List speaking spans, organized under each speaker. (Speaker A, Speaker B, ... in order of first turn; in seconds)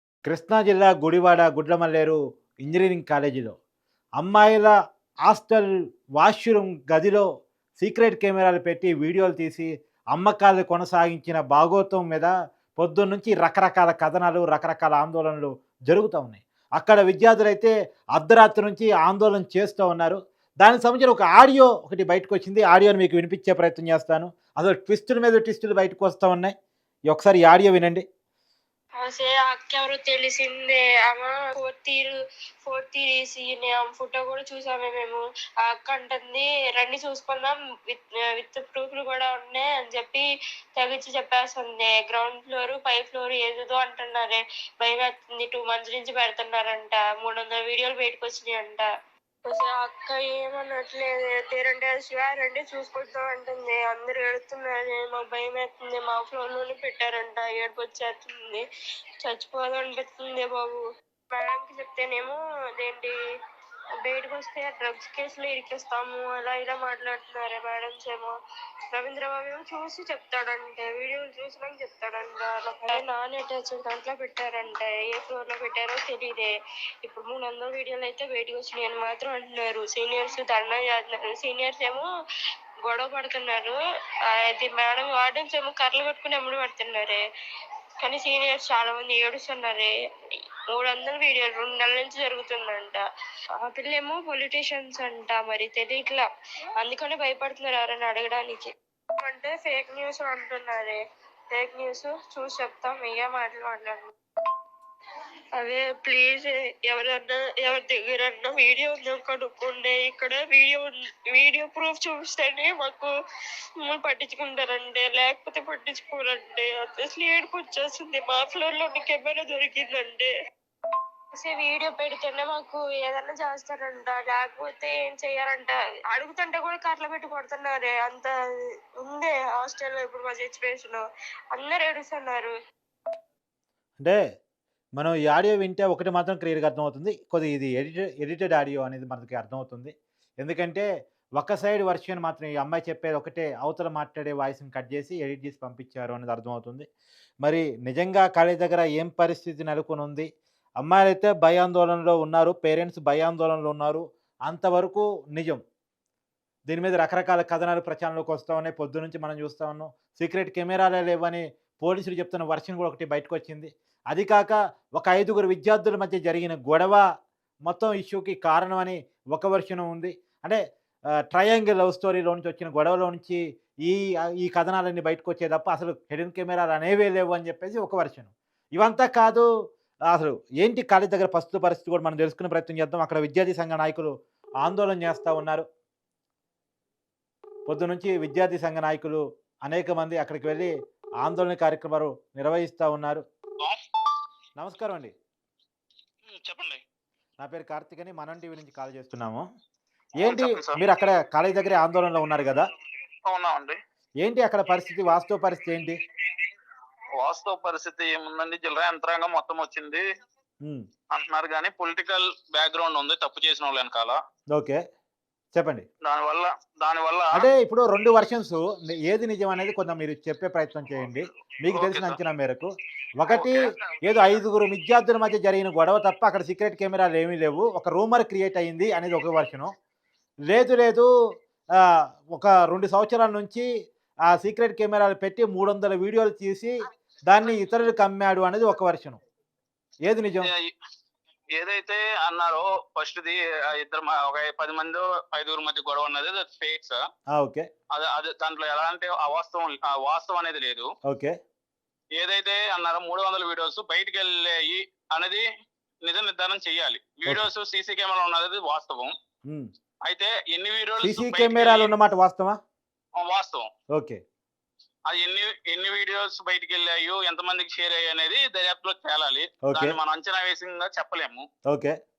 Speaker A: 0.3-3.6, 4.2-4.7, 5.3-7.3, 7.8-26.5, 27.1-28.0, 135.0-146.9, 147.4-150.3, 150.8-155.6, 156.7-167.0, 167.7-170.6, 171.3-179.5, 180.1-185.7, 187.7-190.7, 191.2-193.2, 194.6-195.1, 197.4-199.4, 200.2-202.7, 204.2-206.0, 214.5-214.8, 215.6-215.8, 217.3-229.7, 230.5-231.1, 232.3-233.7, 234.3-239.2, 240.1-240.5, 247.3-247.7, 251.1-251.3, 261.0-262.6, 263.9-264.2, 269.7-270.0, 271.7-271.9
Speaker B: 29.0-40.2, 40.8-48.9, 49.5-58.6, 59.2-63.1, 64.0-68.4, 68.9-76.5, 77.0-82.1, 82.8-83.8, 84.3-87.2, 88.0-89.9, 90.7-93.0, 93.6-96.3, 96.8-104.1, 105.5-113.1, 113.8-120.3, 121.3-132.5
Speaker C: 196.3-196.8, 200.2-200.8, 203.3-203.8, 207.2-210.0, 211.2-214.2, 216.1-217.5, 221.7-222.2, 223.3-224.3, 240.4-240.7, 241.6-247.0, 247.9-250.9, 252.2-255.4, 256.0-259.1, 260.1-261.9, 263.2-263.7, 265.1-271.4